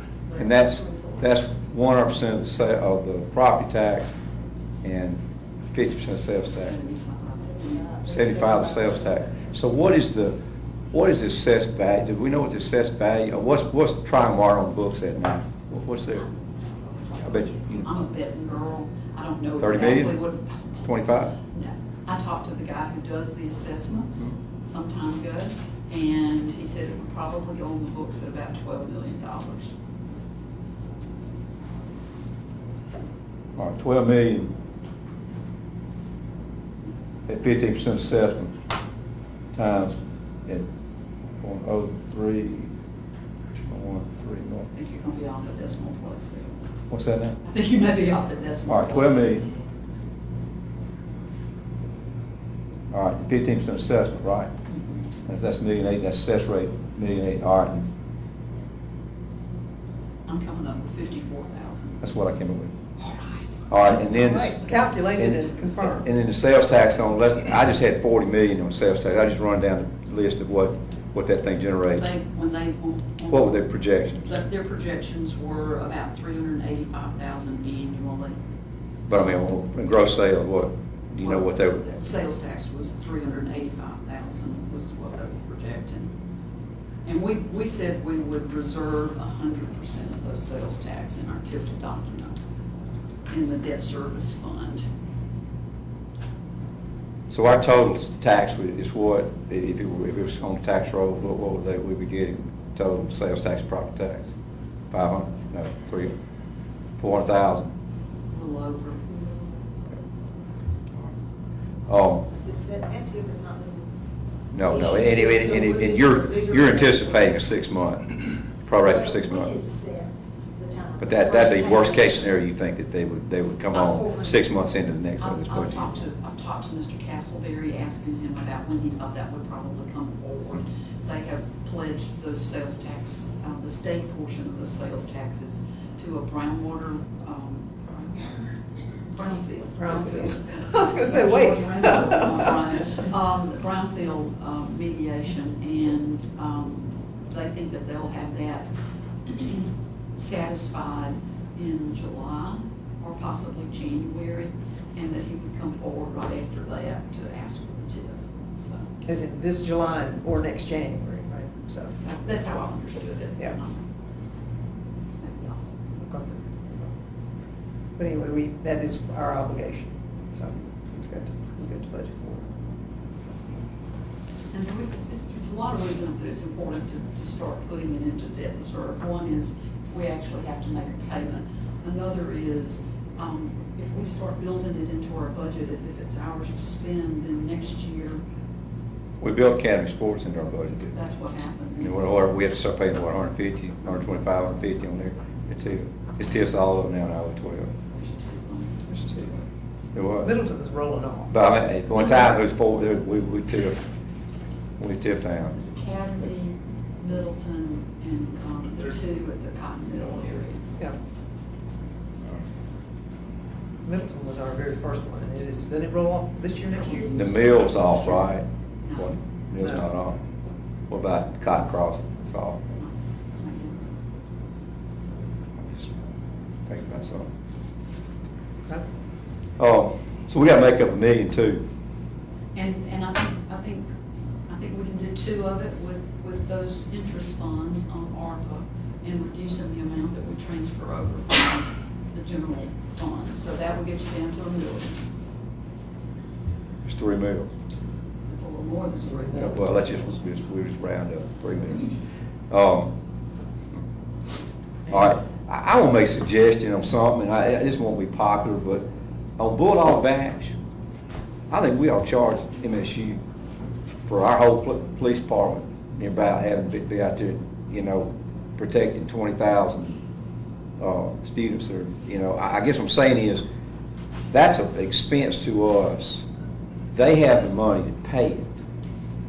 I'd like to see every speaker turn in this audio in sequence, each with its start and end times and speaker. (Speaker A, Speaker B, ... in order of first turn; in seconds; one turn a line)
Speaker A: 0.3-1.3
Speaker B: 0.4-4.2
Speaker B: 4.8-6.8
Speaker C: 6.5-8.0
Speaker A: 7.4-9.7
Speaker B: 8.0-10.4
Speaker B: 10.9-16.3
Speaker A: 17.1-17.4
Speaker B: 17.2-17.9
Speaker C: 17.7-29.7
Speaker B: 19.6-20.2
Speaker B: 20.8-21.4
Speaker B: 33.6-34.5
Speaker B: 37.3-38.5
Speaker B: 39.5-40.7
Speaker B: 41.4-42.7
Speaker B: 43.7-44.7
Speaker C: 44.7-46.6
Speaker B: 46.9-47.4
Speaker C: 47.4-49.3
Speaker B: 48.7-49.5
Speaker B: 52.9-54.5
Speaker B: 55.3-57.9
Speaker C: 60.3-62.0
Speaker B: 62.0-62.7
Speaker C: 63.0-64.1
Speaker B: 63.7-64.6
Speaker D: 64.1-66.1
Speaker B: 65.2-72.1
Speaker C: 72.0-73.7
Speaker B: 73.3-74.3
Speaker C: 74.2-78.4
Speaker B: 79.1-81.8
Speaker C: 79.1-79.5
Speaker C: 81.2-86.1
Speaker C: 87.0-92.4
Speaker C: 93.3-94.8
Speaker B: 97.3-104.3
Speaker B: 104.9-106.2
Speaker B: 107.0-107.7
Speaker C: 108.3-109.0
Speaker A: 109.1-109.4
Speaker B: 111.9-112.3
Speaker A: 112.3-113.9
Speaker B: 114.5-119.5
Speaker A: 114.6-117.5
Speaker A: 118.8-122.4
Speaker B: 121.0-126.0
Speaker A: 123.7-124.4
Speaker C: 123.8-124.0
Speaker C: 125.2-138.4
Speaker C: 139.1-148.7
Speaker D: 139.8-142.6
Speaker C: 149.3-158.9
Speaker D: 159.0-162.0
Speaker C: 162.0-163.8
Speaker C: 165.2-165.7
Speaker D: 166.0-166.9
Speaker D: 168.0-172.5
Speaker C: 174.5-188.2
Speaker B: 189.2-191.0
Speaker C: 190.9-192.1
Speaker B: 191.8-197.7
Speaker C: 197.9-199.3
Speaker D: 198.9-199.3
Speaker B: 199.9-200.3
Speaker D: 200.2-201.3
Speaker B: 201.3-203.8
Speaker C: 201.9-202.4
Speaker B: 204.8-205.6
Speaker C: 205.5-210.7
Speaker D: 213.8-217.2
Speaker C: 216.7-219.1
Speaker B: 217.1-220.2
Speaker B: 220.9-222.6
Speaker C: 222.7-223.9
Speaker B: 225.6-226.0
Speaker B: 226.7-227.3
Speaker B: 229.6-231.6
Speaker C: 232.6-233.9
Speaker C: 234.5-245.0
Speaker B: 246.8-247.5
Speaker C: 248.3-250.2
Speaker B: 249.3-252.0
Speaker B: 252.5-252.9
Speaker B: 254.9-258.9
Speaker B: 259.4-260.6
Speaker B: 261.5-263.2
Speaker B: 264.1-270.0
Speaker B: 270.8-273.4
Speaker B: 274.3-276.2
Speaker B: 276.9-278.5